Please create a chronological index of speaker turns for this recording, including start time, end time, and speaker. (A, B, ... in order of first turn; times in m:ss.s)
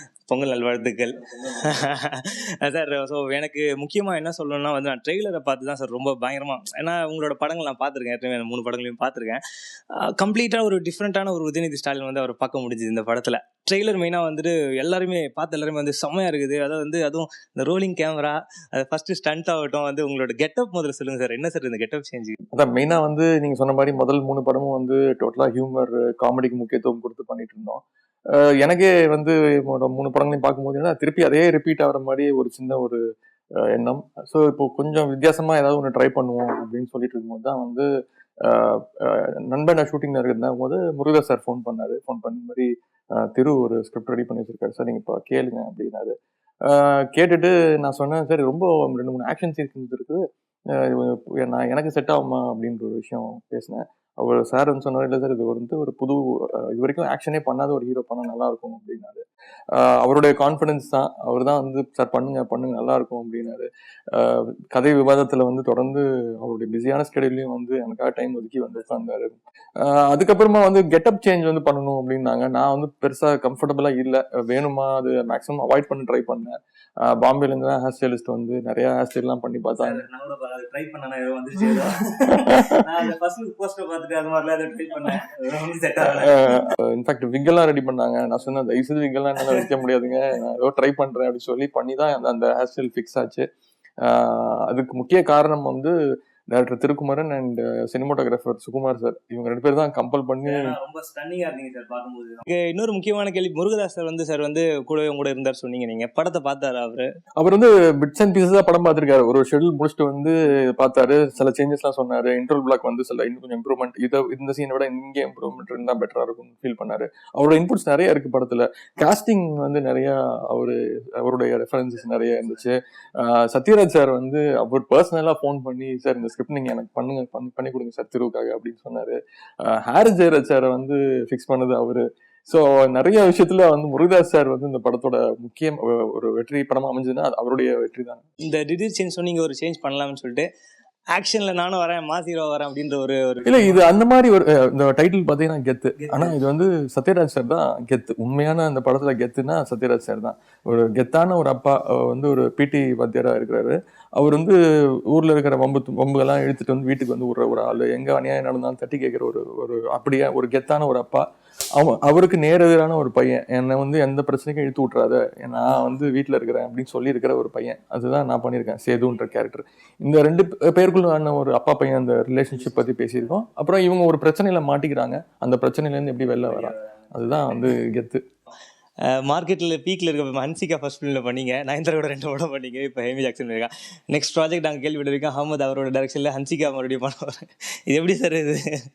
0:00.2-0:09.4 A
0:09.9-0:22.4 A
0:22.5-0:33.0 B
0:33.6-0:37.9 B
0:38.4-1:20.0 B
1:19.8-1:26.7 A
1:22.5-1:22.8 B
1:26.0-1:33.4 B
1:29.4-1:29.6 A
1:34.0-1:35.9 B
1:36.5-1:40.7 B
1:40.4-1:47.1 A
1:47.4-2:18.2 B
2:01.9-2:02.7 A
2:18.4-2:20.5 A
2:21.1-2:23.9 A
2:23.4-2:34.6 B
2:26.0-2:26.4 A
2:35.1-2:58.2 B
2:52.5-2:53.4 A
2:56.4-2:57.8 A
2:59.0-3:08.8 A